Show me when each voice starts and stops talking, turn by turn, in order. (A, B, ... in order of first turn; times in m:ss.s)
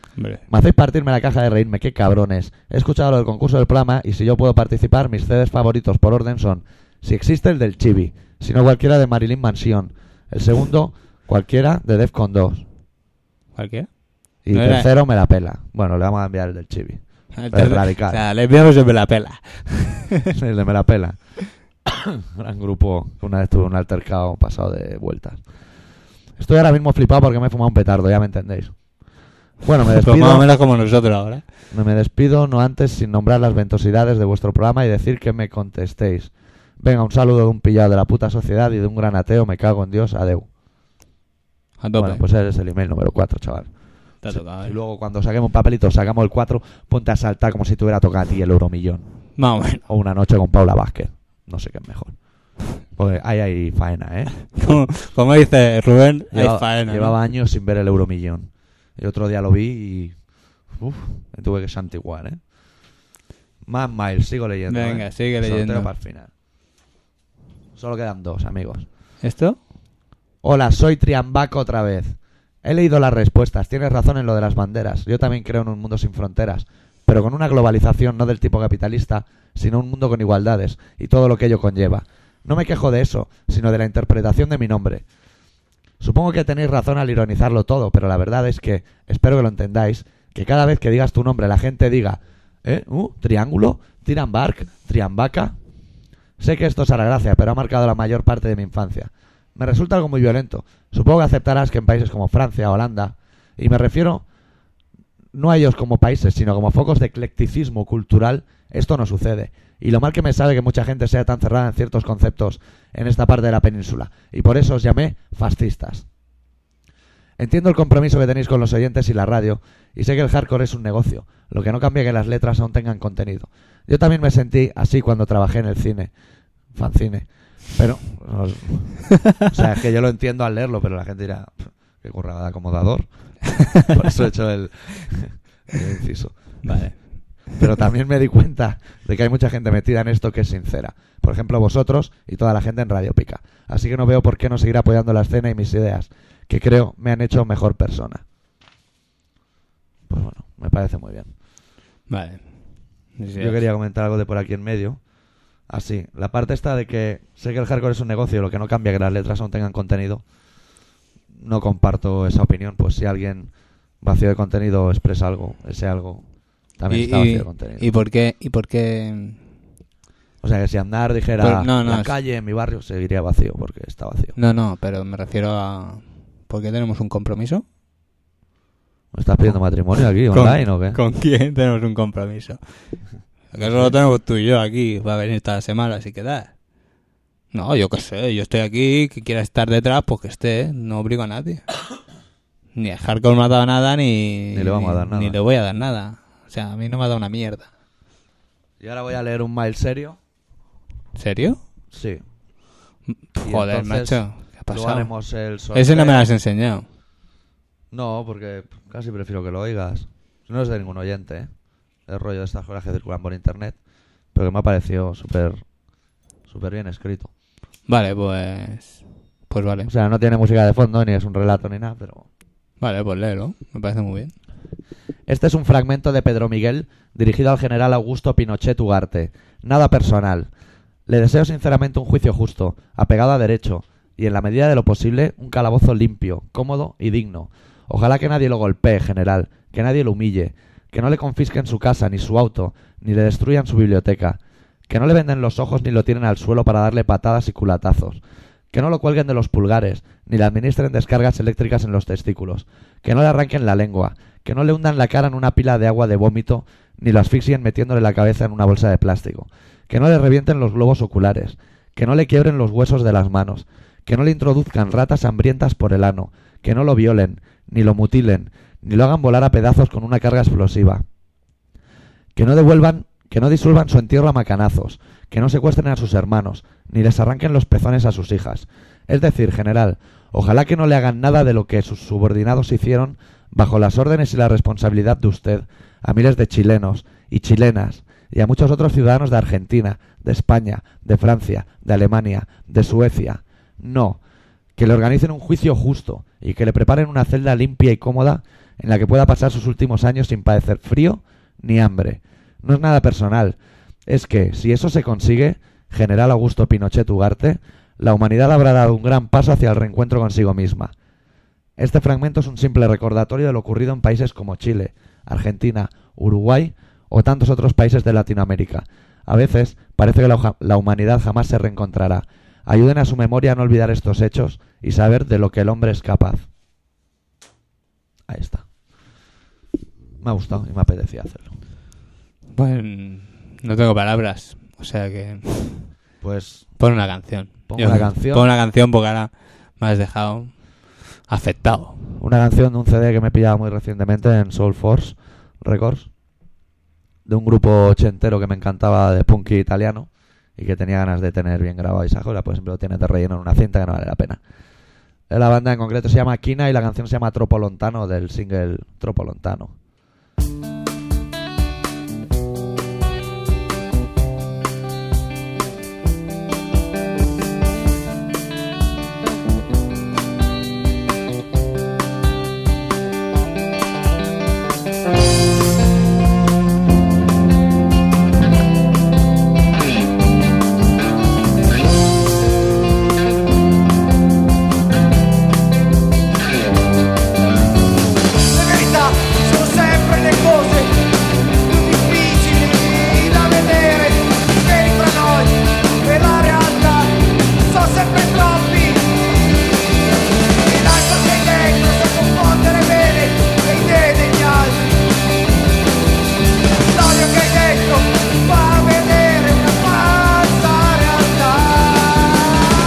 0:00.2-0:00.4 A
0:00.5-0:12.6 B
0:13.6-0:13.9 A
0:14.4-0:18.2 B
0:14.5-0:14.9 A
0:17.4-0:20.3 A
0:20.3-0:21.2 B
0:21.8-0:25.4 B
0:26.4-0:28.7 B
0:29.6-0:30.5 B
0:29.9-0:31.4 A
0:31.7-0:40.5 B
0:41.8-0:42.2 A
0:42.0-0:43.7 B
0:44.2-0:44.7 A
0:44.3-0:49.0 B
0:49.4-0:49.8 A
0:49.9-0:52.2 B
0:52.9-0:54.3 B
0:54.5-0:57.1 A
0:56.3-1:00.2 B
1:00.7-1:02.4 B
1:03.6-1:06.3 B
1:04.7-1:05.9 A
1:07.8-1:08.8 B
1:09.2-1:09.6 A
1:10.4-1:25.0 B
1:26.0-1:35.5 B
1:36.4-1:44.2 B
1:45.3-1:56.0 B
1:57.4-2:06.1 B
2:06.7-2:13.0 B
2:13.6-2:13.9 A
2:13.7-2:16.8 B
2:16.6-2:17.1 A
2:17.6-2:28.2 B
2:30.1-2:31.3 B
2:32.1-2:32.4 A
2:33.2-2:33.6 A
2:33.4-2:35.0 B
2:35.7-2:40.2 B
2:41.3-2:43.5 B
2:44.0-2:46.2 B
2:46.8-2:47.9 B
2:46.9-2:49.4 A
2:50.4-2:54.4 B
2:51.4-2:52.1 A
2:54.4-2:57.6 A
2:59.1-3:01.0 B
3:00.3-3:02.6 A
3:03.5-3:06.5 A
3:03.6-3:04.0 B
3:07.5-3:11.6 A
3:12.7-3:17.7 A
3:14.5-3:15.4 B
3:18.8-3:20.2 B
3:21.2-3:21.6 A
3:21.9-3:22.2 B
3:23.1-3:25.1 A
3:23.4-3:26.3 B
3:25.7-3:26.8 A
3:27.9-3:31.5 B
3:32.1-3:33.8 B
3:34.3-3:35.6 B
3:36.5-3:37.3 B
3:37.9-3:39.9 A
3:39.9-3:42.2 B
3:42.8-3:44.3 A
3:45.3-3:50.5 B
3:51.1-4:08.2 B
4:08.7-4:31.0 B
4:32.3-4:54.2 B
4:54.8-5:10.9 B
5:11.8-5:26.4 B
5:28.3-5:28.6 B
5:30.2-5:31.5 B
5:32.5-5:35.9 A
5:36.2-5:36.7 B
5:36.8-5:40.5 A
5:37.7-5:38.5 B
5:41.3-5:42.0 A
5:42.2-5:46.1 B
5:47.2-5:54.4 B
5:55.3-5:59.7 B
6:28.7-6:30.9 C
6:31.7-6:36.9 C
6:37.7-6:38.9 C
6:40.7-6:44.8 C
6:46.9-6:52.5 C